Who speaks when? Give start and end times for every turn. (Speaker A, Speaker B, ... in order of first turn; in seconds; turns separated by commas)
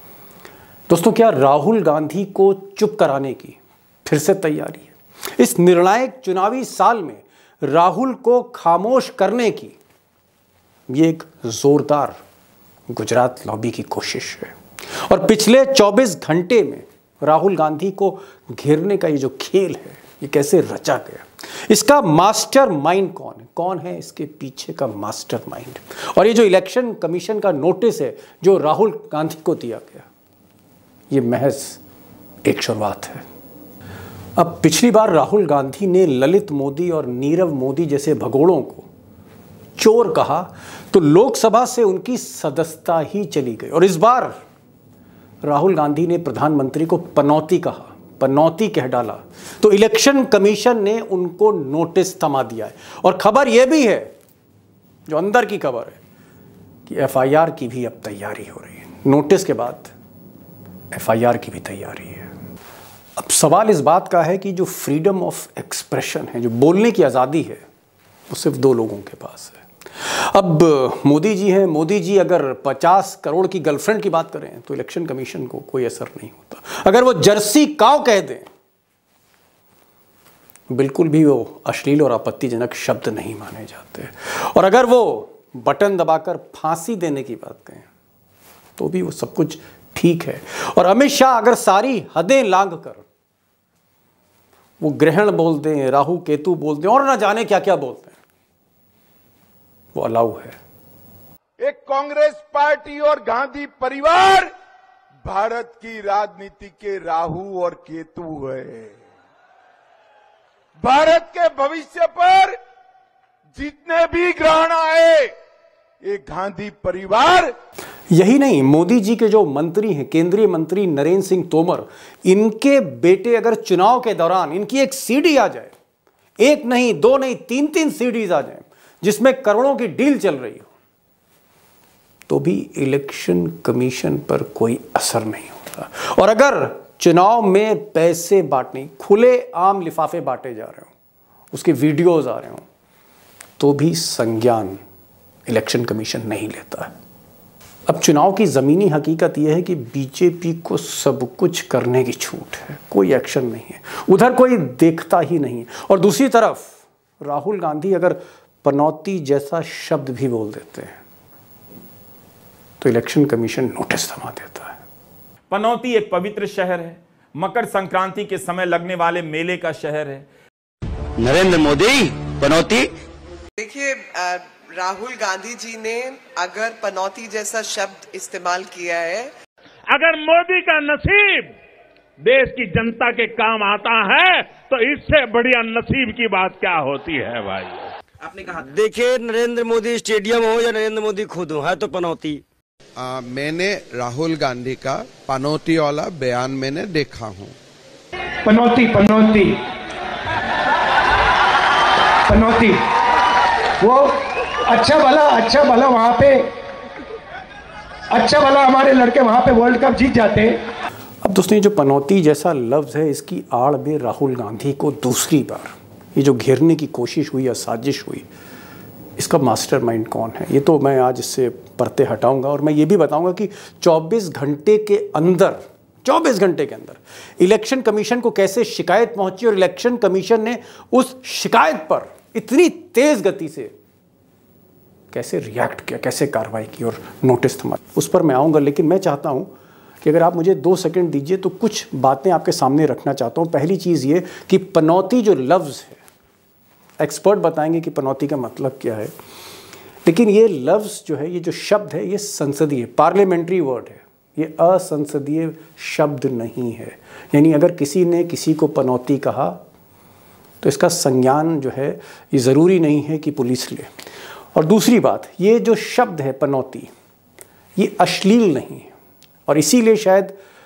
Speaker A: 0.9-9.7, Speaker A: 10.9-12.2, Speaker A: 12.9-30.1, Speaker A: 31.1-31.8, Speaker A: 32.4-33.2, Speaker A: 34.4-38.9, Speaker A: 39.8-44.4, Speaker A: 45.4-54.1, Speaker A: 55.1-56.0, Speaker A: 56.9-59.9, Speaker A: 60.9-62.3, Speaker A: 63.2-67.6, Speaker A: 68.3-78.5, Speaker A: 80.7-87.9, Speaker A: 88.8-93.0, Speaker A: 94.8-98.2, Speaker A: 99.9-100.6, Speaker B: 101.6-104.5, Speaker B: 105.2-109.0, Speaker B: 110.8-112.6, Speaker B: 113.5-115.3, Speaker B: 116.0-117.5, Speaker A: 118.1-125.7, Speaker A: 126.4-130.7, Speaker A: 132.3-140.9, Speaker A: 141.5-142.6, Speaker A: 143.6-144.8, Speaker A: 145.5-146.9, Speaker A: 147.9-161.0, Speaker A: 162.8-164.8, Speaker C: 165.5-170.2, Speaker D: 171.2-172.9, Speaker E: 173.6-179.3, Speaker F: 179.9-181.6, Speaker F: 182.2-187.9, Speaker D: 188.2-192.4, Speaker G: 193.0-197.6, Speaker H: 198.4-199.6, Speaker H: 202.3-202.8, Speaker H: 203.8-206.5, Speaker H: 208.1-210.6, Speaker A: 211.2-218.2, Speaker A: 219.2-233.7, Speaker A: 235.1-239.5, Speaker A: 240.0-246.0, Speaker A: 247.0-249.1, Speaker A: 250.0-259.6, Speaker A: 260.6-263.9, Speaker A: 264.5-266.9, Speaker A: 267.8-268.9, Speaker A: 269.5-270.4